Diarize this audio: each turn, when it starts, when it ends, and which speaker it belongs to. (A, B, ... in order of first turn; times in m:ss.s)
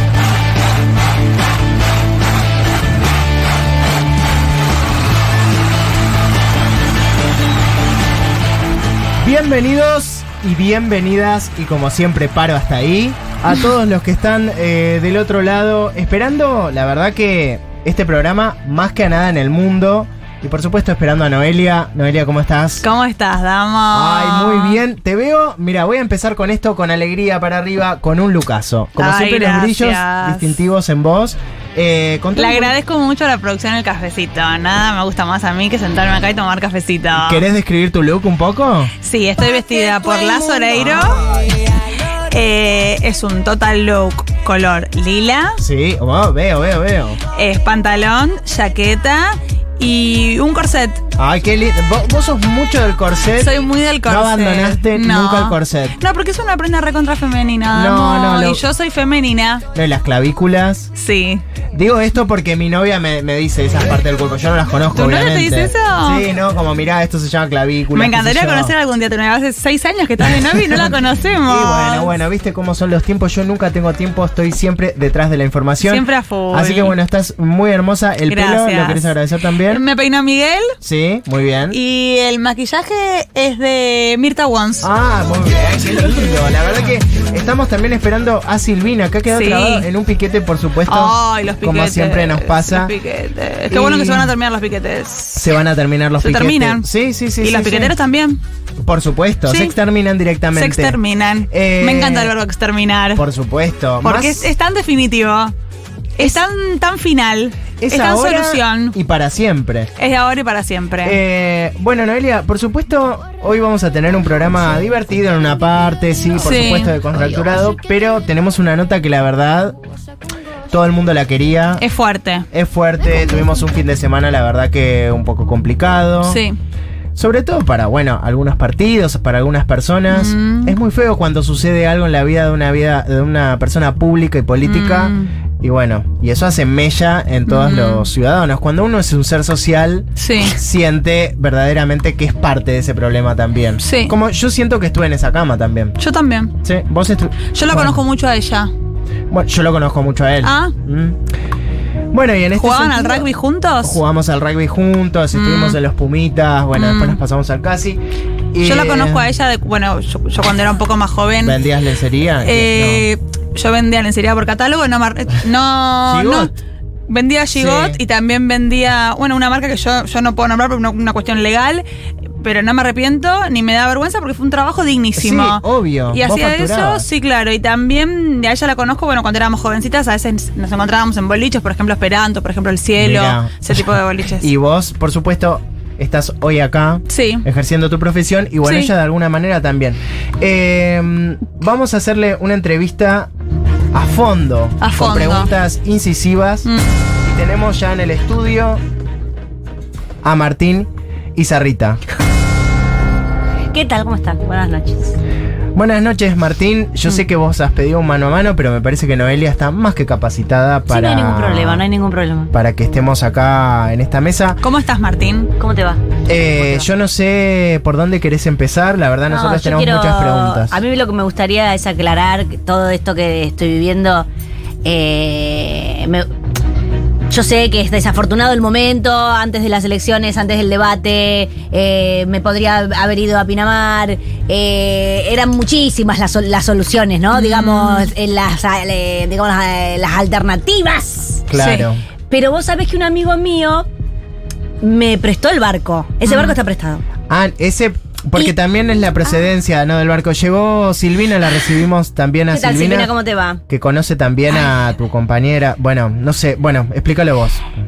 0:09.2-0:22.8 A
0:22.8-0:24.8 B
0:23.9-0:32.7 A
0:29.0-0:30.6 B
0:32.4-0:37.4 B
0:37.2-0:38.9 A
0:39.0-0:41.3 B
0:40.8-0:41.3 A
0:42.3-0:45.6 B
0:45.6-0:47.2 A
0:47.4-0:51.0 B
0:51.2-0:56.0 A
0:53.4-0:59.6 B
0:57.7-0:58.6 A
0:59.7-1:00.9 A
1:01.0-1:01.4 B
1:01.7-1:08.8 A
1:04.9-1:06.3 B
1:07.9-1:12.2 B
1:10.3-1:19.9 A
1:15.8-1:17.0 B
1:18.3-1:19.2 B
1:19.7-1:20.7 B
1:20.8-1:21.8 A
1:21.7-1:24.9 B
1:24.8-1:32.9 A
1:29.3-1:29.9 B
1:30.8-1:35.6 B
1:33.7-1:34.4 A
1:35.4-1:38.0 A
1:36.2-1:36.9 B
1:37.4-1:38.4 B
1:38.8-1:42.4 A
1:39.5-1:39.8 B
1:40.5-1:43.3 B
1:43.2-1:44.5 A
1:44.0-1:45.5 B
1:46.2-1:49.0 B
1:47.8-1:49.9 A
1:50.0-1:51.2 B
1:51.0-1:59.8 A
1:56.4-1:57.0 B
2:00.7-2:01.9 A
2:01.8-2:02.5 B
2:02.5-2:06.4 A
2:06.2-2:06.6 B
2:07.2-2:26.0 A
2:10.1-2:10.8 B
2:14.6-2:15.3 B
2:17.5-2:18.1 B
2:20.2-2:20.6 B
2:23.8-2:24.1 B
2:26.0-2:26.5 B
2:26.6-2:28.0 A
2:27.5-2:28.7 B
2:29.3-2:31.2 A
2:30.4-2:30.7 B
2:32.1-2:33.3 A
2:32.6-2:34.0 B
2:33.8-2:38.0 A
2:35.3-2:35.8 B
2:36.7-2:37.2 B
2:38.5-2:39.3 A
2:38.6-2:41.6 B
2:41.4-2:43.1 A
2:42.4-2:46.6 B
2:46.1-2:46.6 A
2:47.1-2:51.8 B
2:47.5-2:48.0 A
2:52.4-3:04.5 B
2:55.2-2:57.1 A
3:03.0-3:03.8 A
3:04.4-3:13.3 A
3:07.1-3:07.4 B
3:08.6-3:08.9 B
3:13.9-3:16.7 A
3:14.8-3:15.5 B
3:17.2-3:18.8 A
3:20.2-3:22.0 A
3:23.7-3:25.2 C
3:25.8-3:31.8 A
3:30.9-3:32.5 C
3:32.5-3:34.6 A
3:34.6-3:35.5 B
3:35.6-3:36.0 C
3:36.3-3:40.8 A
3:39.3-3:44.3 C
3:44.8-3:46.3 C
3:47.3-4:01.4 C
3:57.3-3:58.1 B
4:01.5-4:02.0 A
4:01.6-4:01.9 B
4:02.3-4:03.9 C
4:04.8-4:07.0 C
4:06.3-4:06.6 B
4:07.3-4:13.1 A
4:12.5-4:13.6 C
4:13.7-4:17.7 A